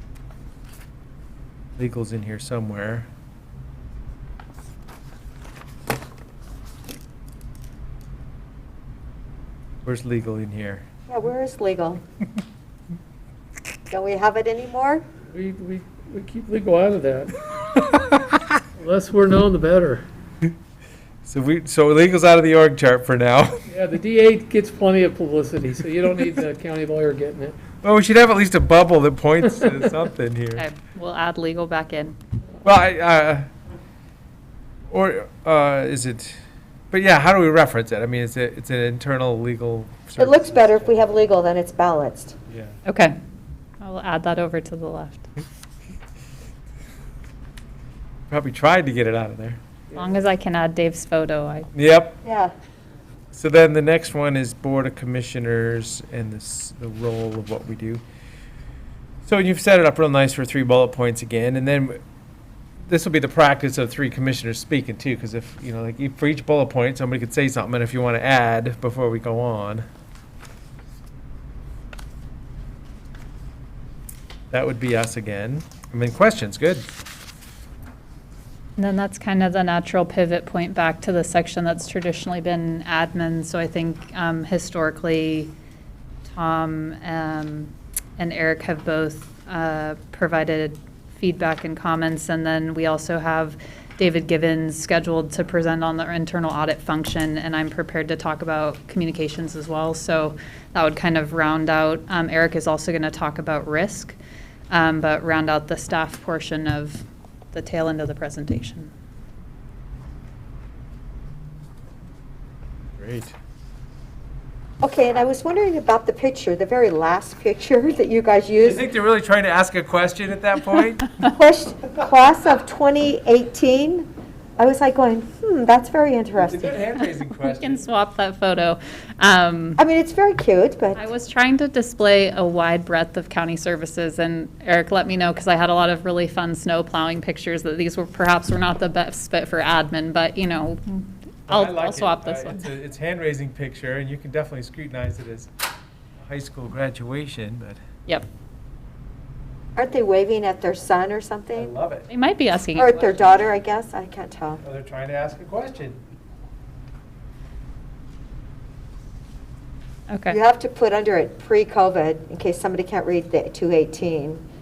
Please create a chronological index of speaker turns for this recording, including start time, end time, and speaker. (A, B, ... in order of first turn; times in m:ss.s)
0:01.8-0:03.1 A
0:09.8-0:10.8 A
0:11.1-0:12.0 B
0:13.9-0:15.0 B
0:15.3-0:17.4 C
0:18.8-0:20.0 C
0:21.2-0:23.6 A
0:23.7-0:27.6 C
0:27.8-0:30.6 A
0:30.6-0:32.2 D
0:32.6-0:33.5 A
0:34.9-0:36.4 A
0:36.9-0:41.0 A
0:40.2-0:42.4 B
0:42.5-0:42.8 A
0:42.9-0:43.2 D
0:43.8-0:45.2 D
0:48.3-0:49.6 A
0:50.0-0:51.7 D
0:51.7-0:52.2 A
0:52.2-0:52.5 B
0:53.3-0:58.0 A
0:59.2-1:02.0 A
1:02.9-1:09.9 A
1:14.5-1:16.9 A
1:18.8-1:25.5 D
1:26.3-1:44.2 D
1:44.7-1:48.9 D
1:53.0-1:53.4 A
1:54.8-1:58.8 B
1:58.6-2:01.1 A
2:01.2-2:04.1 B
2:04.6-2:06.8 B
2:06.4-2:07.9 A
2:07.2-2:09.8 D
2:09.8-2:11.0 B
2:11.0-2:22.7 D
2:21.5-2:25.5 A
2:26.2-2:27.8 A
2:29.8-2:31.7 B
2:31.6-2:32.1 A
2:32.1-2:32.9 D
2:32.8-2:34.6 B
2:33.1-2:33.5 A
2:34.6-2:36.0 A
2:40.1-2:40.4 D
2:40.3-2:44.4 B